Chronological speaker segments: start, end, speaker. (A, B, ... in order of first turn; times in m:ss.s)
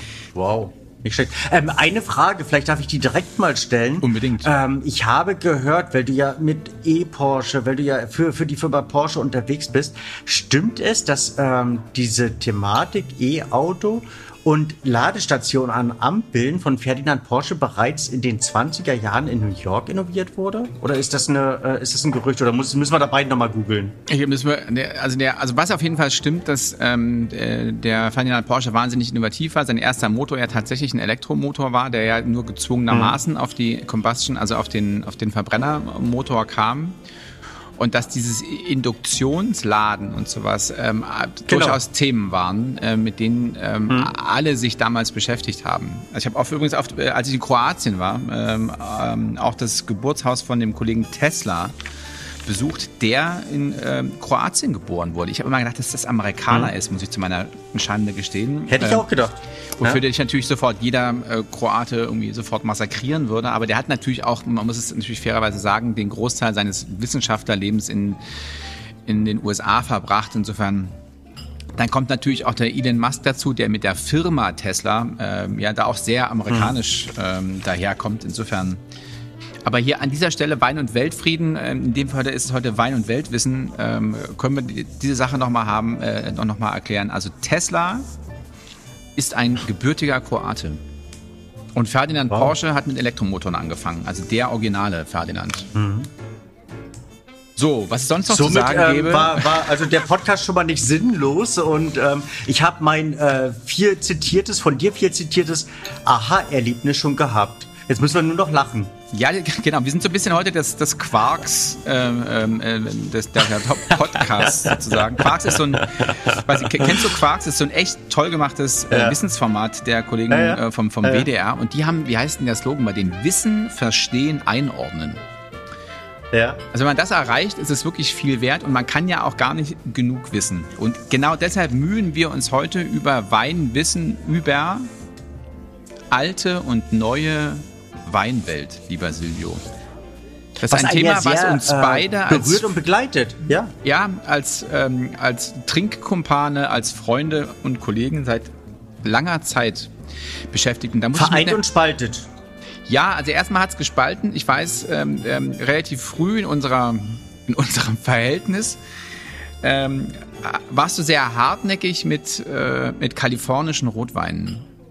0:00.3-0:24.0 A
0:04.0-0:04.5 B
0:24.1-0:37.0 B
0:32.9-0:33.1 A
0:37.8-0:51.7 B
0:41.5-0:41.8 A
0:52.4-0:59.1 B
0:58.7-1:00.0 A
0:59.8-1:08.2 B
1:09.0-1:10.9 B
1:11.8-1:18.8 B
1:16.5-1:16.7 A
1:19.6-1:28.0 B
1:29.2-1:30.8 B
1:31.8-1:35.7 B
1:35.7-1:36.1 A
1:37.6-1:39.7 B
1:38.3-1:48.9 A
1:49.1-2:05.2 B
1:54.2-1:57.1 A
1:58.9-1:59.2 A
2:00.3-2:01.3 A
2:06.3-2:06.6 A
2:06.7-2:14.9 B
2:16.1-2:19.6 B
2:20.6-2:22.8 B
2:20.7-2:23.7 A
2:23.8-2:28.5 B
2:29.0-2:29.9 B
2:30.5-2:31.6 B
2:31.1-2:32.3 A
2:32.9-2:38.8 B
2:39.6-2:44.7 B